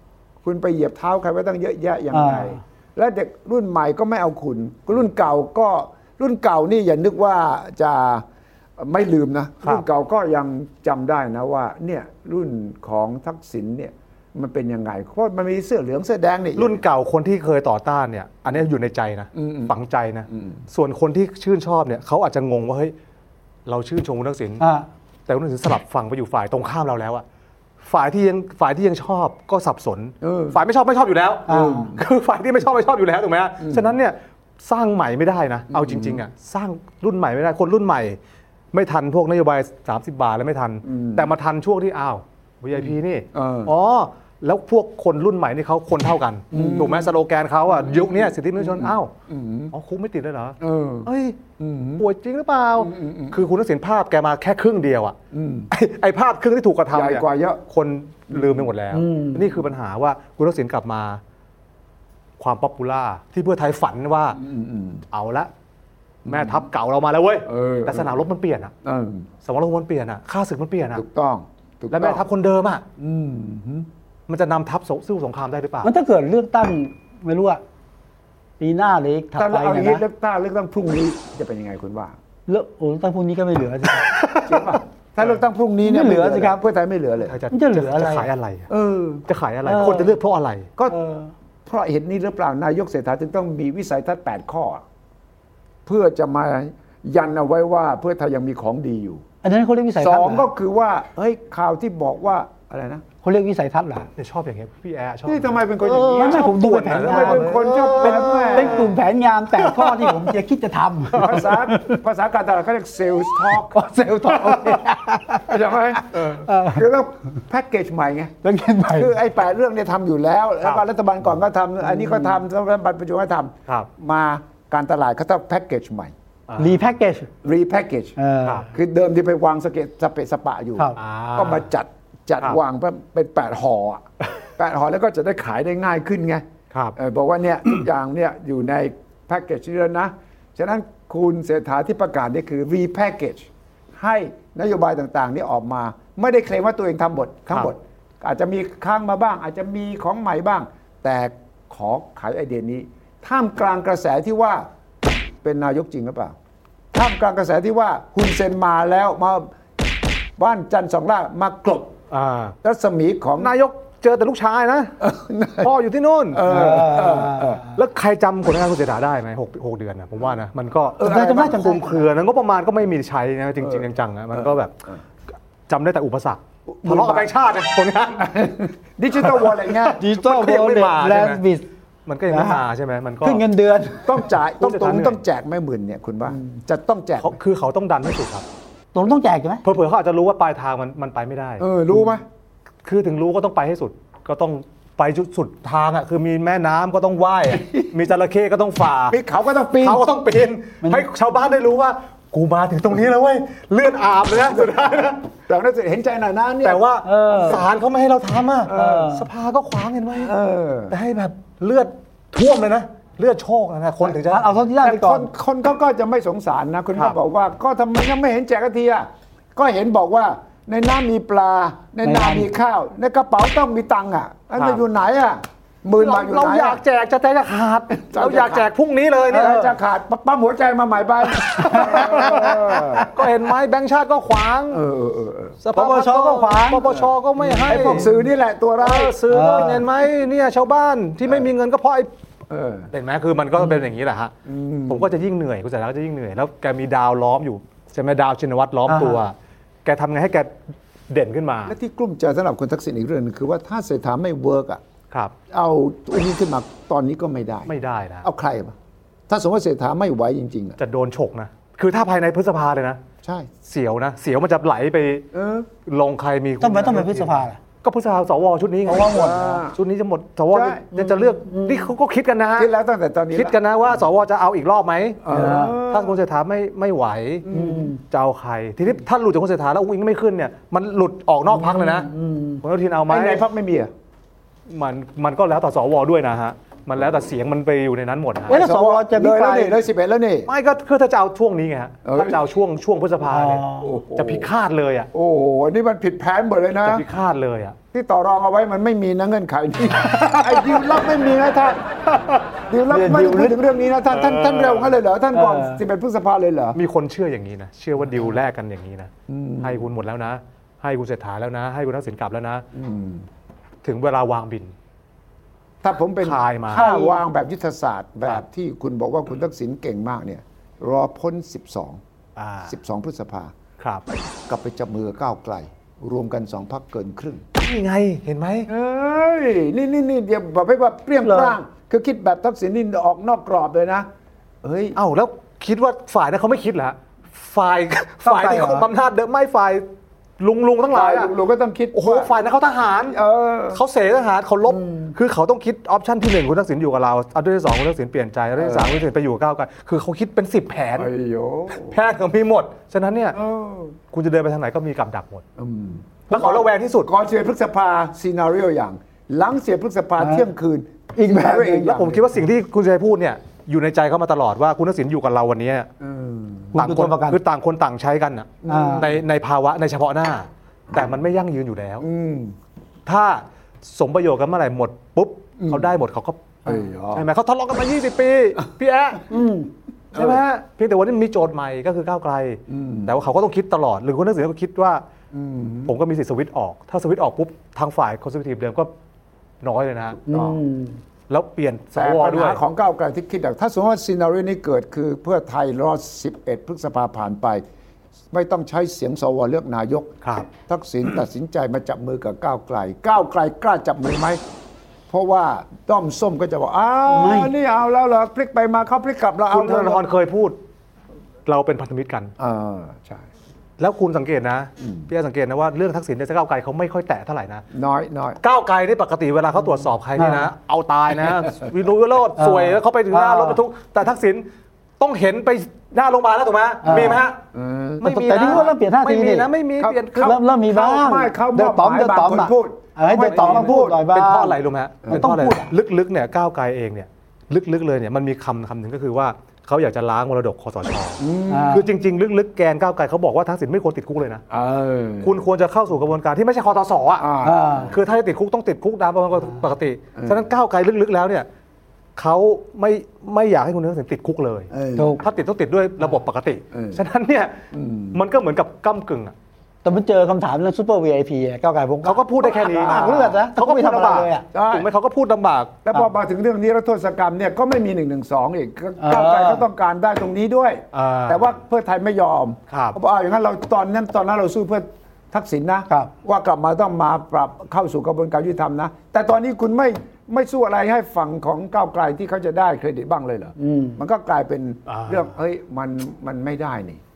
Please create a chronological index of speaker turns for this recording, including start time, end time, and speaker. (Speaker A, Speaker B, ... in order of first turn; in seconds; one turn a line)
Speaker A: 0.4-8.2
Speaker B: 2.1-2.6
Speaker A: 8.8-16.8
Speaker C: 16.6-22.9
Speaker A: 19.3-19.7
Speaker A: 20.3-20.6
Speaker C: 23.6-24.6
Speaker B: 24.6-24.9
Speaker C: 25.3-27.2
Speaker C: 27.8-38.2
Speaker A: 30.2-30.6
Speaker B: 31.5-31.9
Speaker A: 31.5-32.0
Speaker A: 33.6-33.9
Speaker A: 35.7-36.2
Speaker C: 38.7-49.1
Speaker A: 40.8-41.3
Speaker A: 42.8-43.7
Speaker A: 46.5-47.1
Speaker A: 47.7-49.7
Speaker C: 49.7-51.4
Speaker A: 50.6-52.0
Speaker C: 52.0-55.1
Speaker A: 52.8-53.4
Speaker A: 55.3-55.7
Speaker C: 55.7-61.2
Speaker A: 56.9-57.6
Speaker A: 58.3-58.7
Speaker B: 58.9-59.5
Speaker C: 62.4-64.4
Speaker A: 64.3-65.0
Speaker C: 65.1-65.5
Speaker A: 66.2-66.6
Speaker C: 66.2-68.7
Speaker A: 67.5-68.1
Speaker A: 68.8-69.3
Speaker C: 69.4-71.0
Speaker A: 70.9-72.2
Speaker C: 71.9-72.8
Speaker A: 73.0-73.9
Speaker C: 74.3-75.9
Speaker B: 75.8-77.6
Speaker B: 78.6-80.0
Speaker A: 79.3-82.2
Speaker B: 82.5-84.1
Speaker C: 84.0-85.2
Speaker A: 84.5-87.4
Speaker B: 85.8-86.6
Speaker C: 87.2-88.7
Speaker B: 87.5-88.3
Speaker A: 88.7-89.2
Speaker C: 89.3-90.7
Speaker B: 89.6-90.1
Speaker B: 90.9-91.3
Speaker A: 91.7-94.8
Speaker A: 95.8-99.2
Speaker B: 99.4-100.5
Speaker A: 100.0-103.0
Speaker B: 103.2-104.1
Speaker C: 104.2-108.9
Speaker A: 105.2-109.0
Speaker B: 106.1-112.0
Speaker C: 109.6-110.3
Speaker C: 111.1-111.4
Speaker A: 111.2-114.7
Speaker B: 113.7-115.5
Speaker A: 115.4-118.3
Speaker C: 116.1-116.4
Speaker B: 116.2-116.8
Speaker B: 118.4-119.1
Speaker A: 118.9-126.1
Speaker B: 121.9-122.3
Speaker C: 126.5-126.9
Speaker B: 126.6-127.3
Speaker A: 127.4-128.1
Speaker B: 128.2-128.7
Speaker A: 128.7-134.0
Speaker C: 130.9-131.6
Speaker A: 134.6-136.4
Speaker A: 136.9-154.7
Speaker A: 155.4-156.3
Speaker A: 156.9-159.5
Speaker A: 160.4-161.9
Speaker C: 162.1-162.6
Speaker A: 162.6-163.5
Speaker C: 163.4-165.0
Speaker A: 165.0-165.7
Speaker C: 165.6-166.6
Speaker A: 166.3-167.7
Speaker B: 166.4-167.7
Speaker C: 167.7-174.7
Speaker A: 171.0-171.6
Speaker B: 171.0-172.0
Speaker A: 173.6-175.0
Speaker C: 175.7-178.3
Speaker A: 176.7-177.3
Speaker A: 178.2-180.0
Speaker C: 179.2-181.4
Speaker B: 179.9-181.7
Speaker C: 182.1-183.4
Speaker B: 182.3-182.6
Speaker B: 183.2-184.2
Speaker A: 184.1-187.4
Speaker C: 184.6-185.2
Speaker C: 187.2-188.4
Speaker B: 188.9-189.6
Speaker C: 189.6-191.7
Speaker A: 191.6-192.2
Speaker C: 192.8-199.2
Speaker A: 199.1-200.1
Speaker C: 199.8-205.2
Speaker A: 205.4-206.8
Speaker C: 206.6-210.3
Speaker B: 207.0-207.6
Speaker A: 208.7-209.1
Speaker B: 208.7-209.3
Speaker A: 210.2-210.9
Speaker C: 210.9-214.5
Speaker B: 214.1-215.3
Speaker A: 214.8-226.8
Speaker B: 222.0-222.5
Speaker C: 224.6-224.8
Speaker C: 226.0-229.6
Speaker A: 227.9-228.7
Speaker B: 229.3-229.7
Speaker A: 229.3-233.1
Speaker B: 231.6-233.1
Speaker C: 231.6-232.5
Speaker C: 233.1-234.8
Speaker A: 234.7-235.6
Speaker C: 235.6-238.1
Speaker B: 235.7-238.2
Speaker A: 237.7-239.2
Speaker C: 238.8-242.1
Speaker B: 239.3-239.8
Speaker A: 242.5-242.9
Speaker C: 242.9-244.3
Speaker A: 244.4-245.1
Speaker C: 244.9-249.3
Speaker B: 248.9-249.2
Speaker C: 249.8-250.5
Speaker C: 251.1-251.8
Speaker A: 251.7-254.8
Speaker A: 255.5-258.8
Speaker C: 257.7-258.3
Speaker A: 259.3-260.8
Speaker C: 260.8-263.0
Speaker A: 263.2-263.5
Speaker C: 263.6-265.3
Speaker A: 265.3-265.7
Speaker C: 265.8-272.7
Speaker B: 266.6-267.6
Speaker B: 268.9-269.6
Speaker A: 269.1-269.8
Speaker A: 270.5-270.9
Speaker B: 270.9-271.9
Speaker A: 272.6-273.6
Speaker C: 273.3-277.4
Speaker A: 275.2-276.2
Speaker B: 275.3-275.8
Speaker A: 277.4-277.9
Speaker B: 277.5-278.0
Speaker C: 278.1-282.1
Speaker B: 281.5-282.6
Speaker C: 282.6-283.4
Speaker A: 283.1-283.9
Speaker C: 284.7-288.6
Speaker A: 288.5-290.5
Speaker B: 288.5-289.8
Speaker C: 290.5-295.1
Speaker A: 292.0-292.4
Speaker B: 293.2-293.9
Speaker A: 293.8-294.5
Speaker A: 295.1-297.1
Speaker C: 296.8-297.8
Speaker A: 297.9-301.8
Speaker C: 300.0-300.9
Speaker C: 302.1-302.4
Speaker A: 302.7-306.8
Speaker B: 302.9-303.6
Speaker C: 304.1-305.0
Speaker B: 305.3-305.8
Speaker C: 306.7-309.1
Speaker A: 309.3-309.8
Speaker C: 309.6-312.6
Speaker A: 312.7-313.2
Speaker C: 313.8-314.7
Speaker A: 315.8-322.0
Speaker C: 316.2-316.9
Speaker B: 316.7-317.2
Speaker C: 322.4-322.7
Speaker A: 322.7-323.5
Speaker A: 324.5-327.4
Speaker C: 327.6-328.7
Speaker A: 328.7-334.1
Speaker B: 331.2-331.6
Speaker A: 334.6-335.0
Speaker C: 334.9-339.8
Speaker B: 338.2-338.9
Speaker C: 340.4-341.3
Speaker A: 340.9-342.3
Speaker C: 341.9-343.2
Speaker A: 343.1-343.8
Speaker C: 343.7-351.1
Speaker B: 344.7-345.1
Speaker A: 348.6-349.0
Speaker A: 351.0-351.9
Speaker C: 351.7-353.4
Speaker A: 353.3-354.0
Speaker C: 354.1-355.4
Speaker A: 355.6-362.4
Speaker C: 356.3-357.1
Speaker B: 360.2-360.5
Speaker B: 361.1-362.0
Speaker C: 361.9-365.9
Speaker A: 366.0-366.8
Speaker B: 366.7-367.4
Speaker C: 366.8-372.1
Speaker A: 368.6-369.2
Speaker B: 368.7-369.1
Speaker A: 372.0-372.5
Speaker C: 373.1-379.2
Speaker A: 375.6-375.9
Speaker A: 376.6-377.3
Speaker B: 379.3-379.7
Speaker A: 380.1-380.4
Speaker C: 380.1-385.0
Speaker A: 382.7-383.1
Speaker A: 385.3-385.9
Speaker C: 385.9-388.9
Speaker C: 389.6-390.2
Speaker B: 390.3-391.0
Speaker A: 390.3-390.6
Speaker C: 391.3-392.6
Speaker A: 391.9-397.6
Speaker A: 398.3-404.4
Speaker C: 400.2-400.5
Speaker A: 405.1-410.0
Speaker B: 407.1-407.5
Speaker C: 409.5-410.5
Speaker C: 411.4-412.3
Speaker A: 412.4-413.2
Speaker C: 413.8-417.6
Speaker A: 417.7-418.4
Speaker C: 418.4-424.4
Speaker B: 420.2-420.5
Speaker B: 422.4-423.6
Speaker C: 425.0-427.4
Speaker B: 426.8-427.2
Speaker A: 427.5-428.6
Speaker C: 428.0-430.4
Speaker B: 428.0-429.5
Speaker A: 429.8-434.0
Speaker B: 430.2-434.6
Speaker C: 433.1-444.4
Speaker B: 435.1-435.7
Speaker A: 441.2-441.9
Speaker B: 441.5-441.9
Speaker A: 444.5-445.4
Speaker C: 445.2-447.3
Speaker A: 447.2-447.9
Speaker B: 447.4-447.9
Speaker C: 447.9-451.5
Speaker A: 450.1-450.5
Speaker C: 452.1-457.6
Speaker A: 454.7-455.1
Speaker B: 454.9-455.2
Speaker A: 456.7-457.0
Speaker A: 457.7-458.2
Speaker C: 458.1-459.3
Speaker B: 459.8-464.4
Speaker C: 462.0-465.8
Speaker A: 462.4-463.4
Speaker A: 464.5-464.9
Speaker A: 465.8-487.0
Speaker B: 469.0-469.6
Speaker C: 470.9-471.6
Speaker C: 472.7-473.0
Speaker B: 483.6-484.0
Speaker C: 484.9-485.3